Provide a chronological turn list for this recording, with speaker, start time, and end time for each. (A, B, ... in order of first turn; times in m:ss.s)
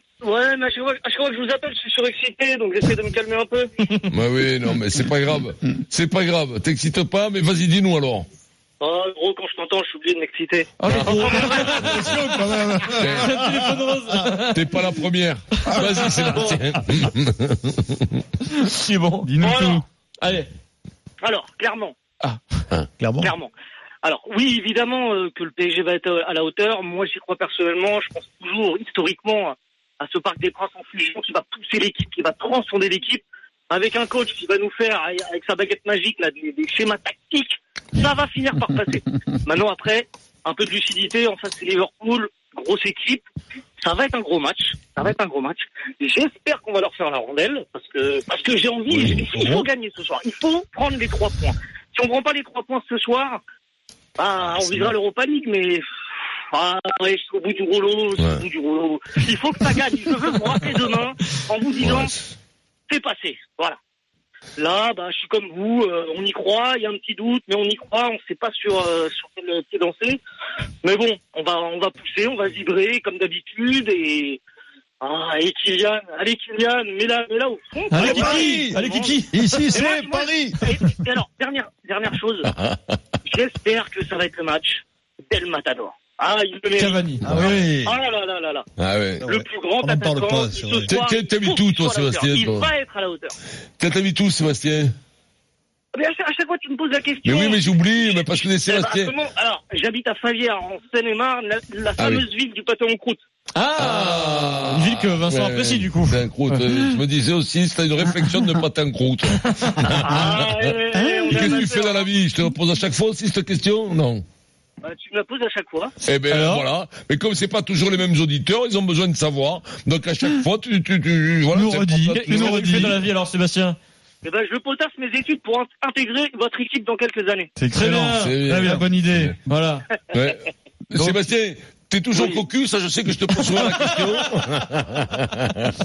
0:00.2-0:03.7 A
0:04.1-0:08.3 B
0:08.8-0:11.9 A
0:10.8-0:14.7 C
0:10.9-0:11.3 B
0:11.8-0:14.2 D
0:12.9-0:13.4 B
0:14.2-0:18.2 B
0:15.7-0:16.1 C
0:15.7-0:16.4 D
0:18.5-0:19.3 C
0:19.2-0:19.8 E
0:19.4-0:19.8 A
0:20.2-0:20.5 C
0:21.2-0:22.0 A
0:22.2-0:22.6 C
0:23.0-0:23.3 D
0:23.2-0:23.5 A
0:24.0-0:43.2 A
0:43.8-0:53.4 A
0:48.9-0:49.4 B
0:54.2-0:55.8 A
0:54.5-0:54.9 B
0:56.5-1:02.1 A
0:58.2-0:58.4 B
1:01.8-1:02.1 B
1:02.9-1:03.8 A
1:04.6-1:10.2 A
1:10.8-1:14.4 A
1:15.0-1:19.2 A
1:17.9-1:19.8 C
1:18.0-1:20.6 D
1:19.7-1:22.5 A
1:22.5-1:22.8 B
1:23.2-1:28.6 A
1:26.8-1:27.6 C
1:27.2-1:27.9 D
1:28.8-1:29.3 B
1:29.2-1:30.9 D
1:29.2-1:33.3 A
1:30.8-1:32.7 B
1:33.8-1:34.9 B
1:35.9-1:43.2 A
1:37.2-1:39.2 B
1:42.0-1:42.3 B
1:43.5-1:47.0 C
1:43.8-1:50.8 B
1:49.8-1:52.0 A
1:50.9-1:51.6 E
1:51.3-1:54.2 B
1:54.8-1:55.9 A
1:56.0-2:02.9 B
1:56.3-1:56.6 C
2:01.5-2:03.0 E
2:02.1-2:03.8 C
2:04.2-2:07.5 A
2:07.6-2:09.4 E
2:07.7-2:08.4 C
2:08.2-2:09.3 B
2:09.4-2:09.8 C
2:10.1-2:15.7 B
2:12.1-2:12.4 A